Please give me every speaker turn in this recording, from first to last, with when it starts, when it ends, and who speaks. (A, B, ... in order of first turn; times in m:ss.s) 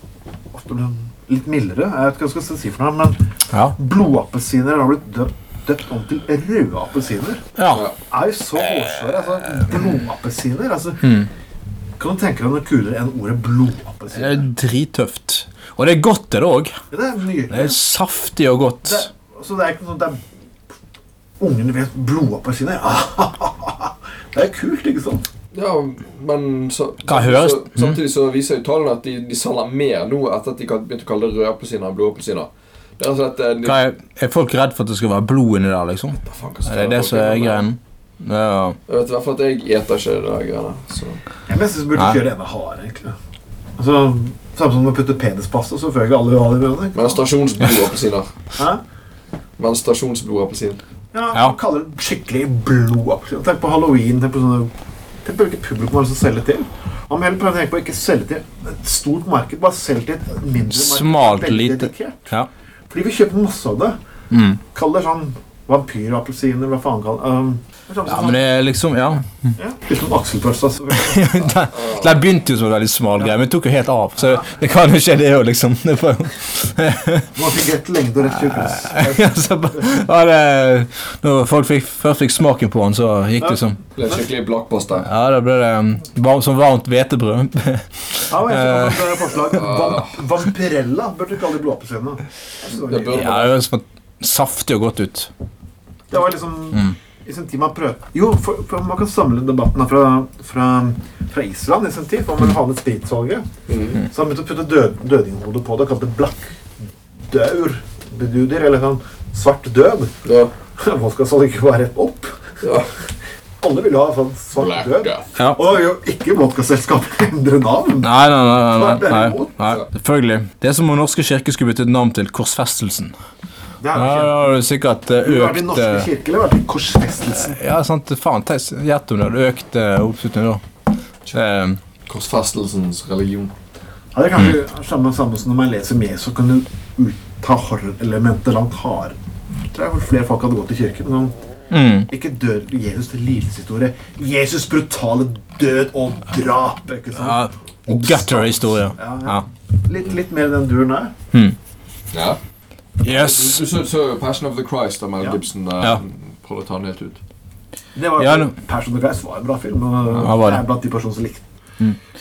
0:00.5-0:03.2 A
0:03.7-0:07.5 A
0:07.6-0:07.8 B
0:08.1-0:11.3 A
0:12.0-0:14.5 A
0:14.2-0:16.7 B
0:16.9-0:17.8 A
0:17.5-0:19.1 B
0:18.8-0:20.2 A
0:21.4-0:25.2 A
0:25.5-0:33.8 C
0:27.1-0:28.0 B
0:33.6-0:38.8 B
0:36.2-0:37.7 C
0:38.9-0:41.2 C
0:41.5-0:43.2 A
0:43.8-0:47.3 A
0:46.9-0:48.3 C
0:49.6-0:50.8 C
0:51.1-0:54.7 A
0:55.2-1:02.3 A
1:00.7-1:02.5 B
1:02.9-1:04.0 A
1:04.3-1:04.6 B
1:04.7-1:08.4 A
1:08.1-1:09.2 B
1:09.6-1:11.6 A
1:10.9-1:17.3 B
1:11.7-1:12.2 C
1:17.4-1:19.9 A
1:18.5-1:23.8 B
1:23.4-1:24.2 A
1:24.0-1:25.1 C
1:25.0-1:29.6 B
1:28.3-1:33.4 A
1:29.5-1:30.2 C
1:32.7-1:33.5 C
1:33.1-1:35.3 B
1:36.1-1:46.6 A
1:43.7-1:44.0 C
1:47.3-1:50.2 A
1:50.2-1:50.5 C
1:50.8-1:52.4 A
1:52.6-1:52.9 C
1:53.6-1:59.6 A
1:54.6-1:55.3 C
1:58.0-2:03.1 B
2:03.8-2:04.6 A
2:04.0-2:06.1 B
2:05.2-2:07.6 A
2:07.3-2:10.6 B
2:11.3-2:11.8 B
2:12.1-2:13.5 C
2:14.1-2:19.2 A
2:19.7-2:21.3 A
2:21.7-2:22.1 B
2:22.1-2:31.1 A
2:27.2-2:29.4 B
2:32.1-2:32.4 C
2:33.0-2:33.6 B
2:33.0-2:37.2 C
2:38.0-2:41.4 A
2:38.2-2:38.5 B
2:40.2-2:40.6 B